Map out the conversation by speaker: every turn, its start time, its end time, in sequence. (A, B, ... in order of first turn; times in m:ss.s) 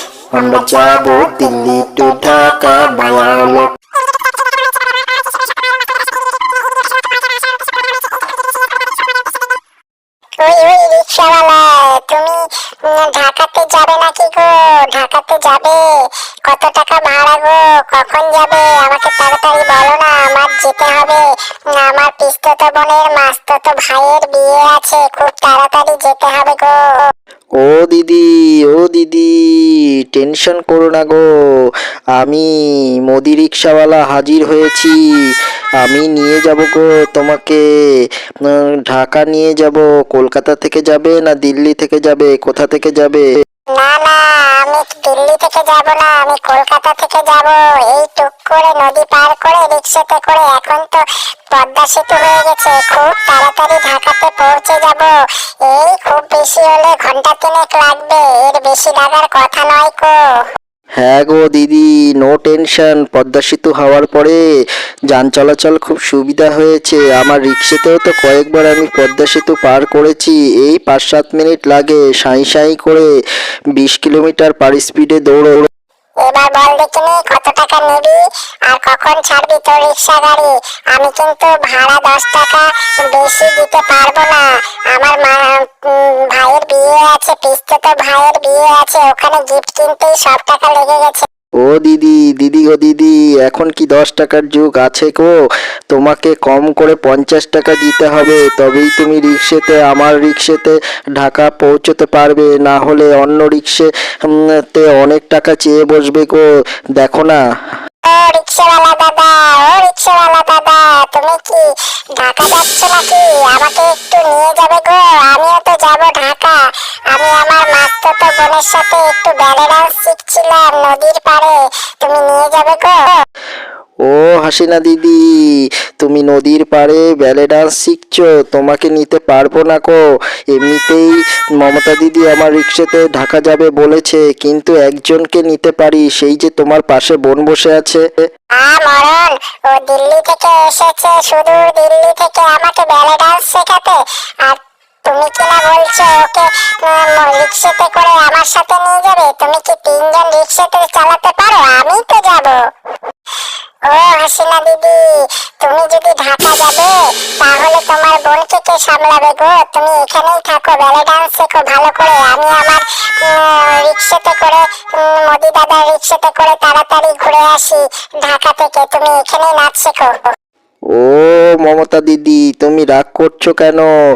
0:00.3-0:03.7 A
0:10.4-0:15.8 B
0:16.5-0:26.8 B
0:27.6-0:31.2 C
0:32.2-0:32.5 C
0:33.1-0:35.0 C
0:35.8-0:37.6 C
0:38.5-0:43.3 C
0:43.7-0:55.1 B
0:55.6-1:00.2 B
1:01.0-1:04.4 C
1:05.1-1:13.1 C
1:13.8-1:15.7 C
1:16.2-1:31.3 B
1:31.6-1:35.3 C
1:35.9-1:46.4 C
1:47.0-1:47.4 C
1:48.0-1:51.6 B
1:52.2-1:56.6 B
1:57.1-2:03.2 B
2:04.0-2:05.2 C
2:06.0-2:10.0 C
2:10.6-2:18.0 C
2:18.6-2:32.6 B
2:33.9-2:50.3 B
2:51.0-2:53.9 C